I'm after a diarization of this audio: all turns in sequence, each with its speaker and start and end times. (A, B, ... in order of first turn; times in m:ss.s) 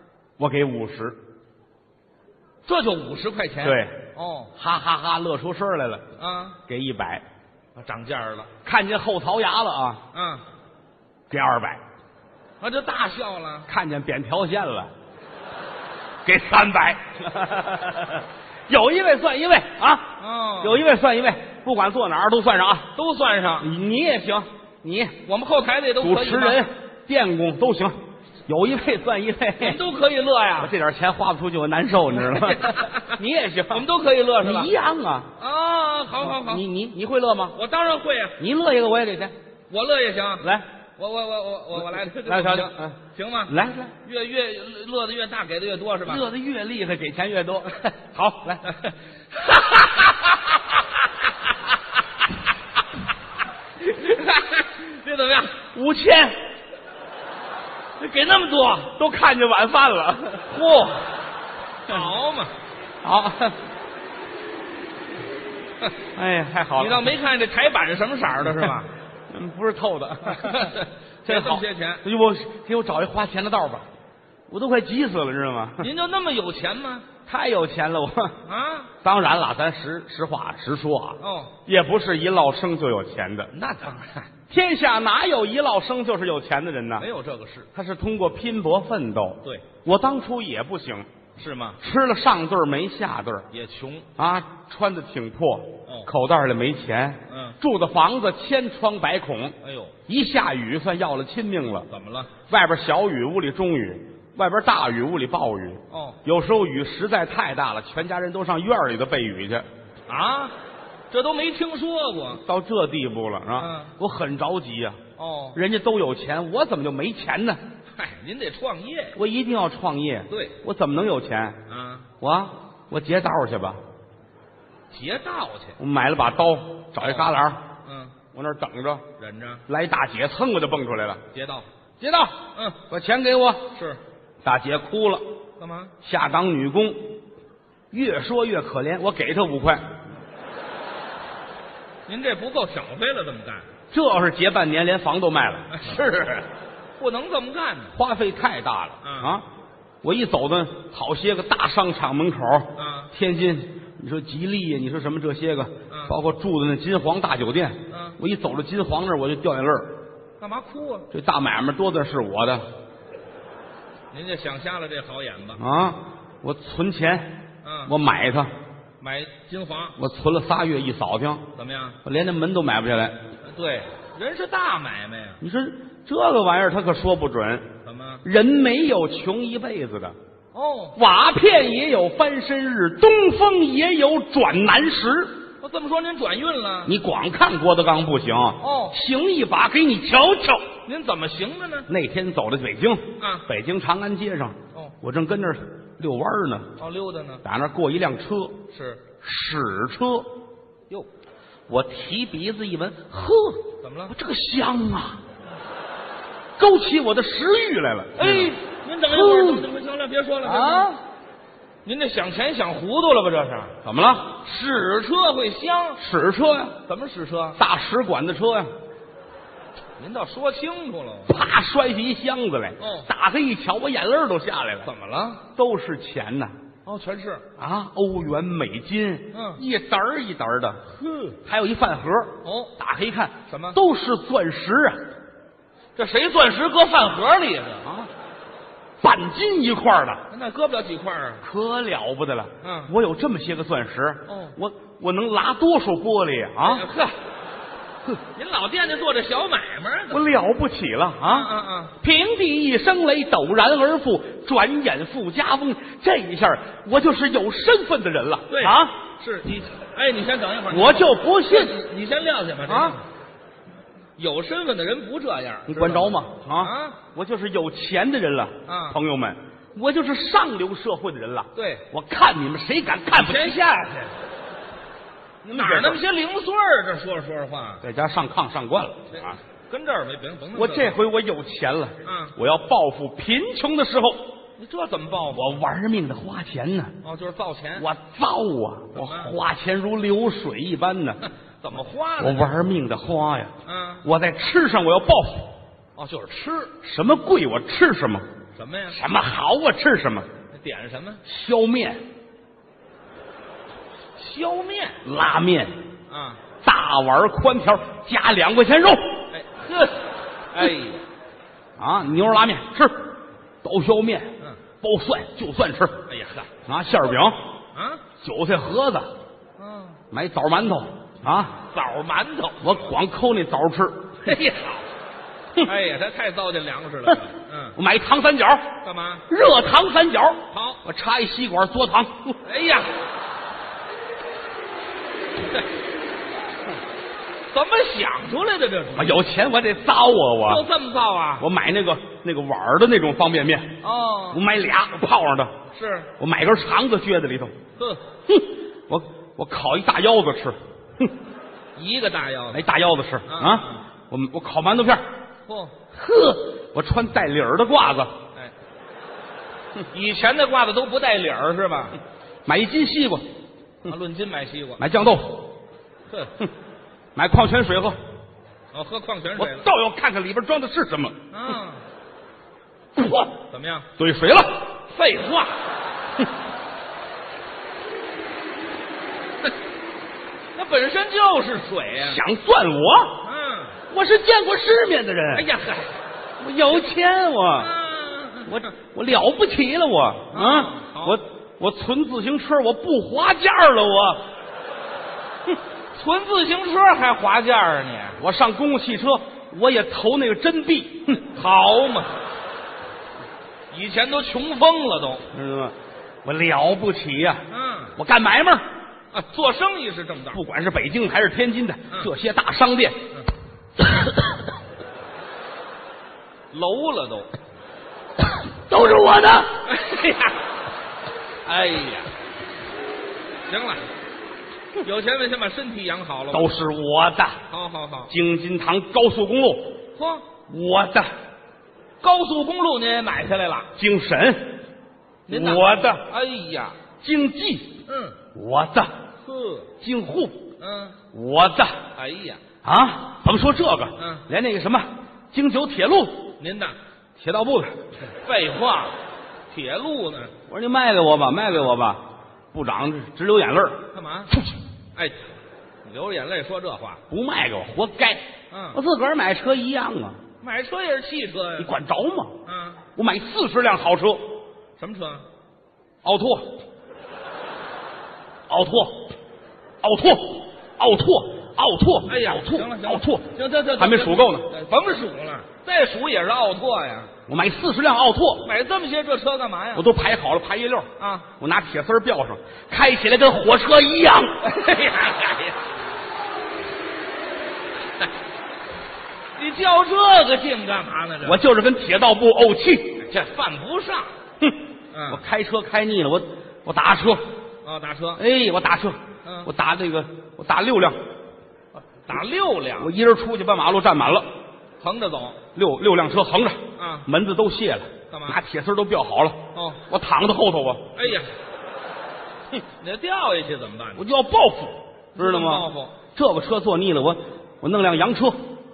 0:00.4-0:01.2 A
0:02.7-0:04.5 B
0:03.6-0:04.0 A
0:04.6-0:06.0 A
0:06.2-0:06.6 B
0:06.7-0:07.2 A
0:07.8-0:08.5 B
0:08.6-0:10.0 A
0:10.1-0:10.4 B
0:11.3-0:11.8 A
0:12.6-0:13.7 B
0:13.7-0:14.9 A
0:16.2-0:22.9 A
0:20.2-0:20.8 B
0:23.0-0:23.7 B
0:23.6-0:25.2 A
0:25.2-0:26.6 B
0:26.0-0:29.8 A
0:29.6-0:30.7 B
0:30.6-0:33.9 A
0:32.2-0:33.2 B
0:33.7-0:34.7 B
0:34.4-0:35.3 A
0:35.4-0:36.6 B
0:36.2-0:37.6 A
0:37.5-0:38.4 B
0:38.4-0:39.3 A
0:39.7-0:46.2 B
0:40.4-0:40.7 A
0:42.2-0:44.0 A
0:46.0-0:48.6 A
0:48.6-0:50.5 B
0:53.8-0:55.6 B
0:55.7-0:56.4 A
0:58.0-0:58.9 B
0:59.0-1:00.5 A
1:00.5-1:01.1 B
1:01.8-1:02.5 B
1:03.0-1:03.6 A
1:06.2-1:07.1 A
1:06.8-1:08.9 B
1:09.3-1:10.7 A
1:10.3-1:12.0 B
1:11.2-1:13.9 A
1:14.5-1:15.9 A
1:15.8-1:17.1 B
1:17.3-1:18.4 A
1:18.4-1:18.9 B
1:19.0-1:23.5 A
1:21.2-1:21.5 B
1:23.5-1:24.3 B
1:24.5-1:27.1 A
1:27.0-1:27.7 B
1:27.7-1:31.1 A
1:31.4-1:31.8 B
1:31.8-1:33.5 A
1:33.5-1:34.1 B
1:34.2-1:39.6 A
1:37.3-1:37.6 B
1:39.6-1:40.0 B
1:40.1-1:41.9 A
1:41.9-1:42.3 B
1:42.5-1:49.7 A
1:45.9-1:46.2 B
1:50.1-1:50.5 B
1:51.1-1:52.4 B
1:52.4-1:55.0 A
1:53.6-1:53.9 B
1:55.2-1:55.6 B
1:55.5-1:57.6 A
1:57.9-1:59.2 B
1:59.2-2:01.6 A
2:00.3-2:00.6 B
2:01.7-2:02.1 B
2:02.2-2:03.8 A
2:04.9-2:05.8 B
2:05.8-2:07.6 A
2:07.0-2:07.3 B
2:07.8-2:08.2 B
2:08.3-2:09.0 A
2:09.2-2:09.6 B
2:09.7-2:11.2 A
2:11.3-2:11.7 B
2:12.0-2:12.4 A
2:12.5-2:12.8 B
2:12.9-2:13.7 A
2:13.7-2:14.0 B
2:14.4-2:15.2 A
2:15.6-2:15.9 B
2:16.0-2:17.1 A
2:17.9-2:19.9 A
2:22.1-2:23.7 B
2:23.9-2:26.3 A
2:25.7-2:26.4 B
2:27.0-2:28.0 B
2:28.0-2:29.5 A
2:29.0-2:29.4 B
2:30.0-2:39.9 A
2:32.8-2:33.1 B
2:35.9-2:36.2 B
2:37.9-2:38.2 B
2:40.4-2:41.1 B
2:41.1-2:42.7 A
2:44.1-2:45.6 B
2:45.6-2:47.3 A
2:47.6-2:47.9 B
2:47.9-2:48.5 A
2:49.0-2:50.0 B
2:50.0-2:51.4 A
2:51.6-2:52.0 B
2:52.0-2:53.2 A
2:53.4-2:55.4 B
2:55.4-2:57.7 A
2:57.8-2:58.2 B
2:58.2-3:00.2 A
3:00.5-3:01.0 B
3:01.0-3:05.4 A
3:05.6-3:07.0 B
3:06.8-3:10.7 A
3:08.6-3:09.0 B
3:10.8-3:11.9 B
3:11.9-3:16.7 A
3:13.2-3:13.5 B
3:16.8-3:17.4 B
3:17.4-3:18.6 A
3:18.7-3:19.1 B
3:19.2-3:20.3 A
3:21.7-3:25.2 A
3:23.8-3:24.2 B
3:26.6-3:28.5 A
3:28.2-3:30.9 B
3:29.1-3:29.7 A
3:30.4-3:31.0 A
3:31.8-3:33.8 B
3:33.8-3:34.4 A
3:34.4-3:36.0 B
3:36.0-3:36.8 A
3:36.9-3:37.6 B
3:37.6-3:38.7 A
3:40.0-3:41.4 B
3:41.3-3:44.9 A
3:42.8-3:43.1 B
3:44.8-3:45.4 B
3:45.5-3:46.5 A
3:46.8-3:47.5 B
3:47.6-3:50.9 A
3:49.3-3:49.6 B
3:51.0-3:51.4 B
3:51.4-3:55.1 A
3:52.4-3:52.7 B
3:53.5-3:53.8 B
3:56.0-3:57.8 B
3:59.0-4:00.2 A
4:00.3-4:01.4 B
4:01.4-4:06.9 A
4:02.6-4:02.9 B
4:04.3-4:04.6 B
4:06.6-4:07.2 B
4:08.3-4:10.3 B
4:10.1-4:19.0 A
4:11.2-4:11.9 B
4:18.5-4:23.0 B
4:20.7-4:21.8 A
4:22.6-4:23.0 A
4:24.2-4:27.0 B
4:25.7-4:33.6 A
4:28.6-4:29.0 B
4:31.5-4:31.9 B
4:33.1-4:34.1 B
4:35.4-4:36.0 A
4:35.5-4:37.8 B
4:37.8-4:39.4 A
4:39.1-4:41.0 B
4:40.5-4:44.3 A
4:42.0-4:42.4 B
4:44.6-4:45.5 B
4:45.3-4:47.0 A
4:47.0-4:47.9 B
4:47.8-4:51.2 A
4:49.0-4:49.4 B
4:51.6-4:52.5 B
4:52.2-4:53.5 A
4:53.6-4:54.0 B
4:54.0-4:55.5 A
4:56.0-4:56.8 B
4:56.8-4:58.2 A
4:58.6-4:59.0 B
4:58.9-5:00.3 A
5:00.5-5:01.2 B
5:01.2-5:02.0 A
5:04.2-5:05.0 B
5:05.0-5:05.7 A
5:06.1-5:06.4 B
5:06.6-5:09.2 A
5:09.3-5:11.0 B
5:11.8-5:13.1 A
5:13.6-5:16.0 A
5:16.1-5:16.5 B
5:16.7-5:17.4 A
5:17.8-5:18.0 B
5:18.2-5:19.1 A
5:19.6-5:20.0 B
5:20.1-5:21.6 A
5:21.6-5:22.9 B
5:22.6-5:24.3 A
5:24.2-5:24.9 B
5:25.6-5:27.8 B
5:27.8-5:28.8 A
5:28.8-5:29.3 B
5:29.3-5:32.4 A
5:30.5-5:30.8 B
5:32.4-5:32.9 B
5:37.5-5:39.2 B
5:39.0-5:40.7 A
5:40.4-5:41.5 B
5:41.4-5:43.8 A
5:43.8-5:44.4 B
5:44.3-5:45.5 A
5:45.7-5:46.1 B
5:46.2-5:47.6 A
5:47.8-5:48.0 B
5:48.3-5:51.1 A
5:51.8-5:52.7 B
5:52.5-5:55.0 A
5:53.3-5:53.8 B
5:55.5-5:55.8 B
5:55.9-5:58.1 A
5:59.9-6:02.0 B
6:02.5-6:03.2 A
6:03.8-6:04.9 B
6:04.8-6:05.5 A
6:06.1-6:06.4 B
6:07.1-6:08.0 A
6:08.7-6:09.7 B
6:09.4-6:11.2 A
6:11.3-6:11.8 B
6:13.0-6:13.3 A
6:13.5-6:13.9 B
6:14.0-6:14.7 A
6:14.9-6:15.6 B
6:20.6-6:22.2 B
6:22.0-6:23.2 A
6:23.2-6:23.8 B
6:23.9-6:25.5 A
6:25.3-6:26.0 B
6:26.4-6:27.7 A
6:27.6-6:28.7 B
6:28.5-6:34.2 A
6:30.3-6:31.2 B
6:35.9-6:38.2 B
6:38.2-6:41.2 A
6:41.2-6:42.2 B
6:43.7-6:45.2 B
6:45.3-6:47.4 A
6:47.5-6:48.0 B
6:48.0-6:48.7 A
6:49.1-6:50.4 B
6:50.3-6:53.0 A
6:56.5-6:57.3 B
6:58.7-6:59.6 A
6:59.6-7:00.4 B
7:01.5-7:02.1 B
7:03.5-7:03.8 B
7:04.8-7:06.5 B
7:06.3-7:07.4 A
7:07.5-7:08.1 B
7:08.1-7:09.8 A
7:10.0-7:10.2 B
7:10.5-7:11.1 A
7:12.0-7:13.7 B
7:13.8-7:14.6 A
7:15.3-7:16.8 B
7:15.3-7:16.1 A
7:17.0-7:17.8 A
7:17.9-7:18.2 B
7:18.3-7:18.9 A
7:19.2-7:19.7 B
7:19.8-7:20.5 A
7:20.6-7:21.0 B
7:21.1-7:21.8 A
7:22.0-7:22.4 B
7:22.6-7:26.3 A
7:24.0-7:24.2 B
7:26.4-7:26.8 B
7:27.2-7:27.8 A
7:28.1-7:29.0 B
7:29.5-7:30.3 B
7:30.5-7:33.8 A
7:33.9-7:34.4 B
7:35.8-7:37.0 B
7:37.1-7:40.2 A
7:38.5-7:38.8 B
7:40.4-7:41.7 B
7:41.6-7:42.4 A
7:42.5-7:42.8 B
7:43.0-7:44.3 A
7:44.8-7:45.2 B
7:46.0-7:46.6 A
7:48.5-7:49.1 A
7:49.8-7:54.5 A
7:52.1-7:57.1 B
7:57.3-7:58.5 A
7:58.4-7:59.9 B
7:59.8-8:04.5 A
8:01.0-8:01.3 B
8:04.4-8:05.6 B
8:09.4-8:11.4 B
8:11.2-8:13.0 A
8:13.0-8:14.1 B
8:14.4-8:17.2 A
8:14.9-8:15.2 B
8:17.6-8:18.2 B
8:18.2-8:21.0 A
8:19.2-8:19.5 B
8:22.0-8:22.9 B
8:22.8-8:24.3 A
8:24.8-8:25.4 B
8:25.6-8:30.9 A
8:26.8-8:27.1 B
8:28.1-8:28.4 B
8:29.5-8:29.8 B
8:31.0-8:31.3 B
8:32.8-8:34.1 B
8:34.0-8:38.4 A
8:35.2-8:36.0 B